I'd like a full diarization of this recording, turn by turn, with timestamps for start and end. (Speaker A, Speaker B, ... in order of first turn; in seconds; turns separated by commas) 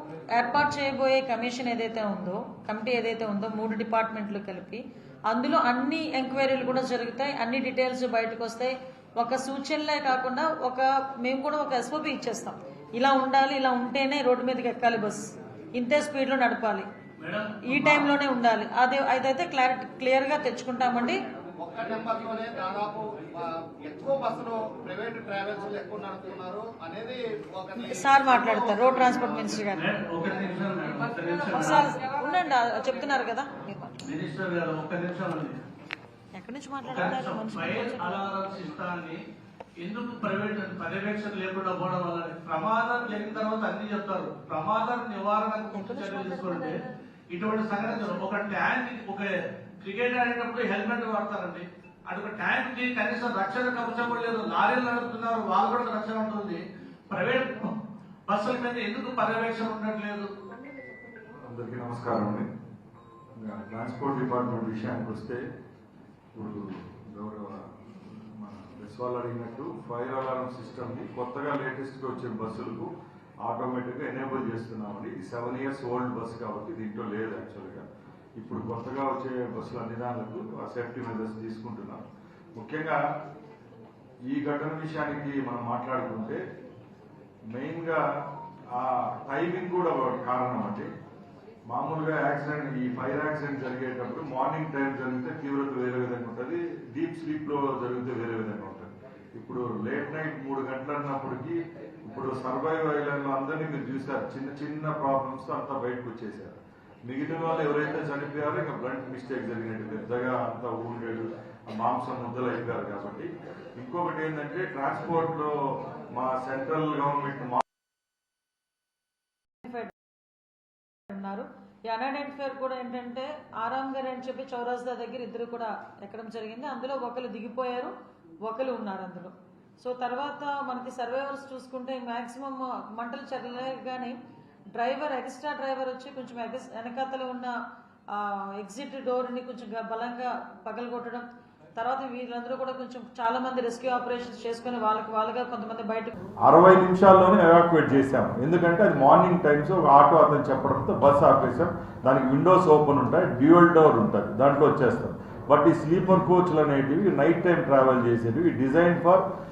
Speaker A: 0.3-16.9, Speaker B: 17.2-18.1, Speaker A: 17.7-21.2, Speaker C: 20.9-29.7, Speaker A: 27.9-29.9, Speaker B: 29.7-31.9, Speaker A: 31.5-34.0, Speaker B: 34.0-35.6, Speaker A: 36.4-38.4, Speaker B: 36.8-39.2, Speaker B: 39.8-46.8, Speaker A: 45.7-46.8, Speaker B: 47.3-49.3, Speaker B: 49.8-57.8, Speaker B: 58.3-60.3, Speaker D: 61.4-62.5, Speaker D: 63.4-65.4, Speaker D: 66.3-72.9, Speaker D: 73.4-83.0, Speaker D: 84.3-86.4, Speaker D: 87.5-88.0, Speaker D: 88.7-90.9, Speaker D: 91.7-115.5, Speaker D: 116.1-117.6, Speaker A: 119.6-119.9, Speaker A: 121.1-127.9, Speaker A: 128.4-134.2, Speaker A: 134.7-137.5, Speaker A: 138.1-141.2, Speaker A: 141.8-146.1, Speaker D: 146.4-159.2